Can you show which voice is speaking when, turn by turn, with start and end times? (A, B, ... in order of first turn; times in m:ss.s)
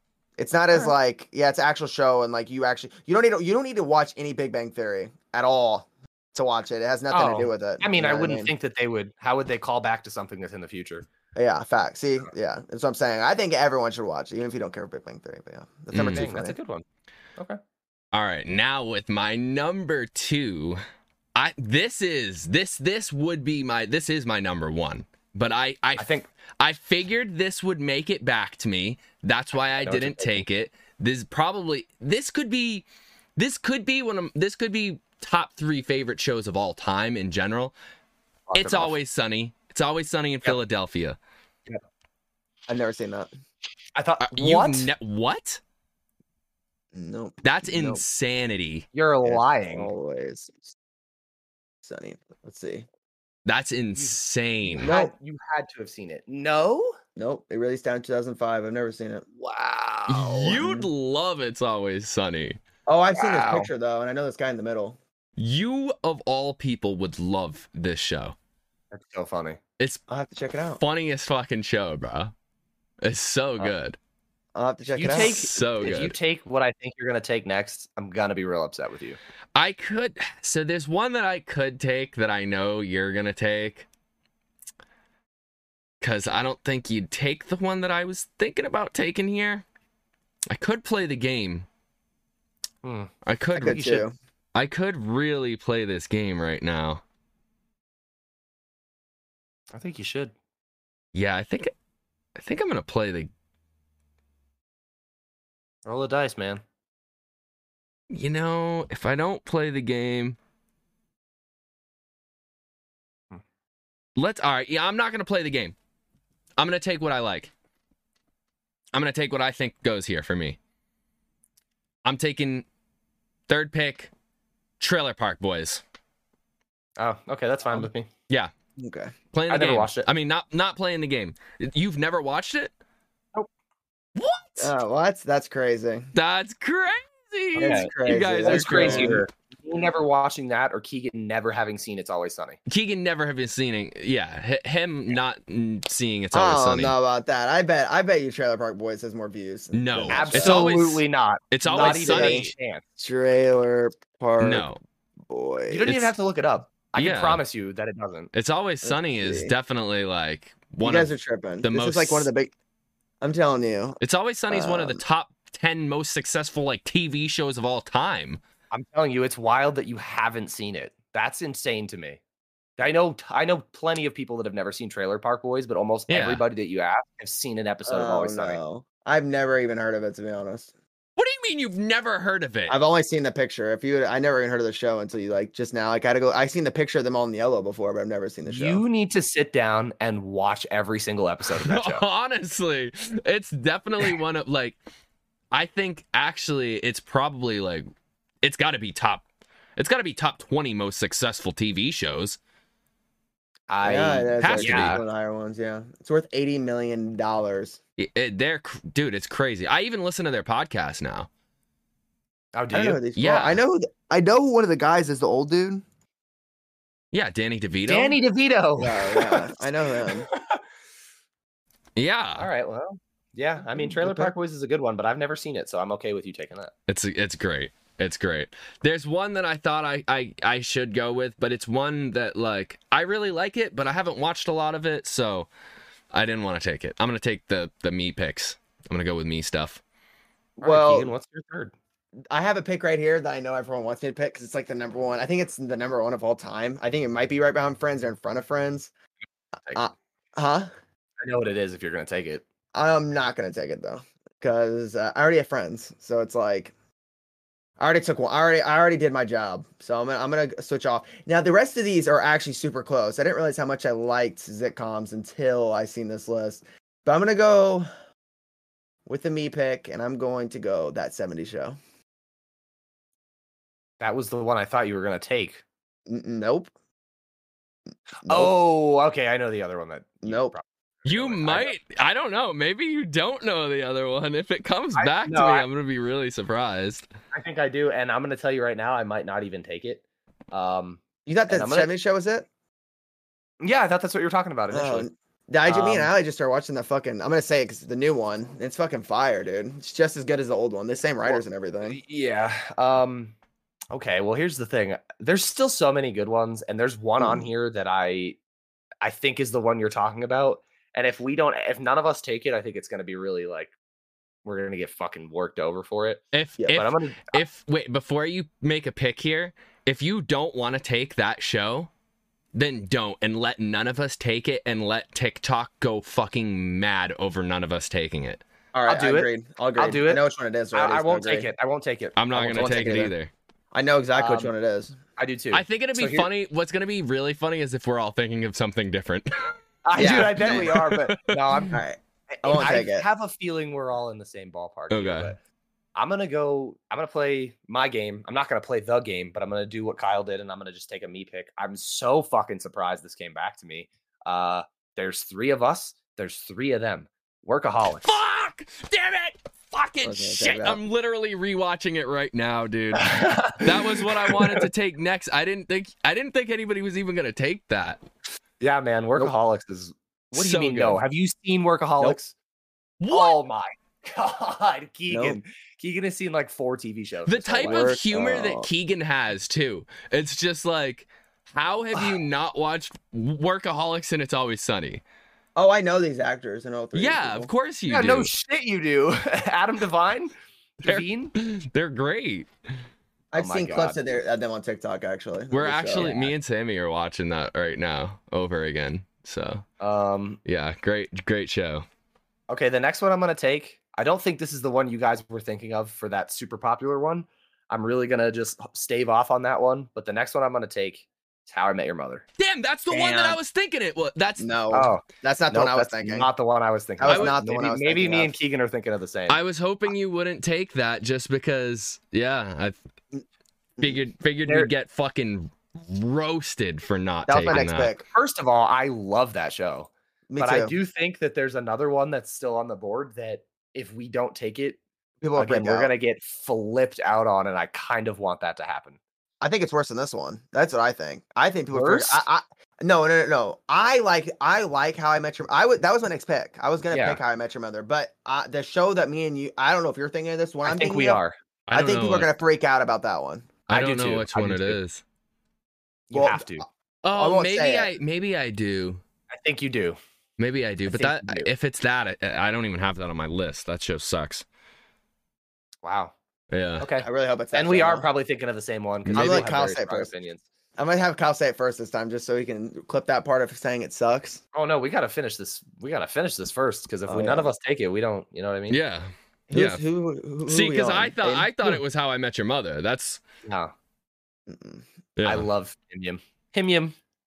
0:00.4-0:08.5 A
0:07.1-0:11.0 B
0:11.3-0:16.6 A
0:15.9-0:16.3 C
0:16.1-0:16.8 B
0:18.1-0:20.8 C
0:21.3-0:37.7 C
0:26.0-0:26.3 B
0:29.8-0:30.4 B
0:38.5-0:38.9 B
0:38.5-0:41.2 C
0:42.7-0:43.3 A
0:43.9-0:44.9 B
0:44.2-0:45.6 C
0:46.9-0:48.0 A
0:47.4-0:48.9 C
0:48.9-0:49.9 B
0:49.2-0:50.7 A
0:51.8-0:52.9 A
0:53.4-0:54.9 C
0:54.7-0:57.0 B
0:54.8-0:55.1 A
0:57.2-0:59.2 A
0:59.4-1:00.6 B
1:00.1-1:02.6 C
1:00.5-1:00.9 A
1:02.8-1:05.0 A
1:03.1-1:03.7 B
1:05.4-1:08.4 C
1:08.9-1:09.6 B
1:10.1-1:10.8 A
1:10.8-1:12.3 C
1:13.0-1:14.0 C
1:14.5-1:15.4 A
1:14.9-1:19.2 B
1:15.0-1:16.1 C
1:19.6-1:23.9 C
1:26.0-1:29.6 C
1:30.5-1:31.7 C
1:32.8-1:34.0 B
1:33.2-1:33.9 C
1:33.6-1:34.1 A
1:34.5-1:37.0 C
1:39.7-1:40.3 B
1:41.1-1:41.7 C
1:42.4-1:43.3 C
1:45.8-1:46.6 B
1:48.1-1:50.4 C
1:54.2-1:55.7 C
1:56.6-1:57.5 C
1:58.9-2:00.6 C
2:02.0-2:02.6 C
2:03.5-2:04.1 C
2:04.8-2:05.8 C
2:07.0-2:08.1 B
2:08.8-2:09.1 A
2:09.3-2:12.7 C
2:09.5-2:10.1 B
2:14.2-2:14.7 C
2:14.6-2:16.1 A
2:16.1-2:19.2 C
2:17.6-2:17.9 B
2:17.6-2:19.2 A
2:18.4-2:22.6 B
2:22.7-2:27.0 C
2:26.3-2:30.7 A
2:29.7-2:32.5 C
2:30.1-2:32.8 B
2:31.7-2:34.7 A
2:34.4-2:34.8 C
2:35.3-2:36.0 A
2:35.7-2:38.3 B
2:37.0-2:37.4 C
2:38.3-2:41.1 C
2:38.8-2:39.5 A
2:40.8-2:42.5 A
2:41.6-2:42.3 C
2:43.2-2:45.0 A
2:44.0-2:48.4 C
2:48.7-2:52.2 B
2:52.8-2:58.6 B
2:56.1-2:56.4 C
2:57.9-3:00.7 A
3:01.2-3:02.8 C
3:02.7-3:08.8 A
3:08.4-3:12.0 B
3:11.6-3:14.8 C
3:15.5-3:17.9 C
3:18.4-3:19.2 C
3:19.8-3:22.4 C
3:23.7-3:25.0 B
3:23.8-3:27.8 A
3:24.4-3:25.0 C
3:28.0-3:31.3 C
3:32.5-3:33.0 B
3:32.7-3:35.8 A
3:33.2-3:33.6 C
3:37.1-3:38.2 C
3:37.9-3:40.6 B
3:38.8-3:40.3 A
3:42.0-3:42.5 C
3:42.4-3:46.7 B
3:43.7-3:44.3 A
3:46.9-3:55.5 C
3:56.1-3:59.8 C
4:00.6-4:01.1 A
4:00.6-4:01.7 B
4:02.3-4:08.9 A
4:09.7-4:10.7 A
4:11.2-4:12.4 B
4:12.7-4:16.7 A
4:17.8-4:27.9 A
4:29.0-4:31.8 A
4:34.0-4:35.6 B
4:36.1-4:36.7 A
4:38.2-4:41.7 B
4:38.2-4:38.5 A
4:40.2-4:40.5 A
4:41.0-4:47.1 C
4:44.9-4:45.6 B
4:47.3-4:51.9 B
4:51.2-4:52.5 A
4:53.6-4:55.1 B
4:54.7-5:02.0 A
4:55.6-4:56.1 B
5:01.2-5:03.3 B
5:03.9-5:08.4 B
5:07.2-5:07.4 A
5:09.0-5:13.7 B
5:14.4-5:17.4 B
5:16.3-5:21.9 C
5:22.5-5:28.4 C
5:28.7-5:31.5 A
5:28.8-5:33.1 B
5:32.2-5:33.3 C
5:32.5-5:33.1 A
5:33.7-5:35.0 A
5:34.1-5:34.5 B
5:35.2-5:36.3 B
5:35.5-5:39.6 C
5:39.8-5:41.8 B
5:39.9-5:40.8 A
5:40.3-5:41.6 C
5:41.7-5:43.0 A
5:42.3-5:45.4 B
5:44.9-5:45.3 C
5:45.9-5:58.2 B
5:58.0-6:08.0 C
6:00.0-6:00.8 A
6:02.9-6:04.6 B
6:08.6-6:12.3 B
6:10.3-6:11.0 C
6:13.0-6:13.4 C
6:13.1-6:17.8 B
6:15.1-6:15.4 A
6:17.2-6:25.0 C
6:17.6-6:18.7 A
6:25.6-6:27.5 A
6:26.9-6:28.3 C
6:27.9-6:31.3 B
6:30.8-6:32.5 C
6:33.3-6:36.3 A
6:33.3-6:34.0 B
6:35.5-6:39.6 C
6:39.8-6:40.4 B
6:40.4-6:41.8 C
6:42.5-6:52.2 B
6:52.4-6:54.5 C
6:52.9-6:53.4 A
6:54.4-6:56.3 A
6:54.7-6:59.4 B
6:57.0-6:58.3 A
6:57.1-6:57.4 C
6:59.3-7:02.8 C
7:03.8-7:07.9 C
7:07.3-7:08.0 A
7:07.5-7:14.8 B
7:10.3-7:10.7 A
7:15.2-7:15.9 A
7:15.4-7:19.0 B
7:19.4-7:31.2 A
7:21.7-7:22.2 B
7:26.9-7:27.2 B
7:30.6-7:31.3 B
7:31.7-7:32.3 C
7:31.7-7:33.6 A
7:33.7-7:34.8 B
7:33.7-7:35.0 C
7:36.1-7:36.6 B
7:36.1-7:36.6 A
7:37.0-7:39.0 C
7:37.1-7:37.9 A
7:39.3-7:40.0 B
7:40.4-7:44.4 C
7:40.9-7:41.5 B
7:45.8-7:46.1 B
7:46.5-7:46.8 C
7:46.8-7:50.4 B
7:47.0-7:48.0 A
7:49.1-7:49.4 C
7:49.1-7:50.1 A
7:50.8-7:54.4 A
7:54.5-7:58.8 B
7:57.1-7:57.5 A
7:58.7-7:59.8 C
7:59.5-8:01.8 A
8:00.5-8:03.2 C
8:03.4-8:03.7 B
8:04.5-8:04.8 A
8:05.2-8:05.5 C
8:05.2-8:06.9 B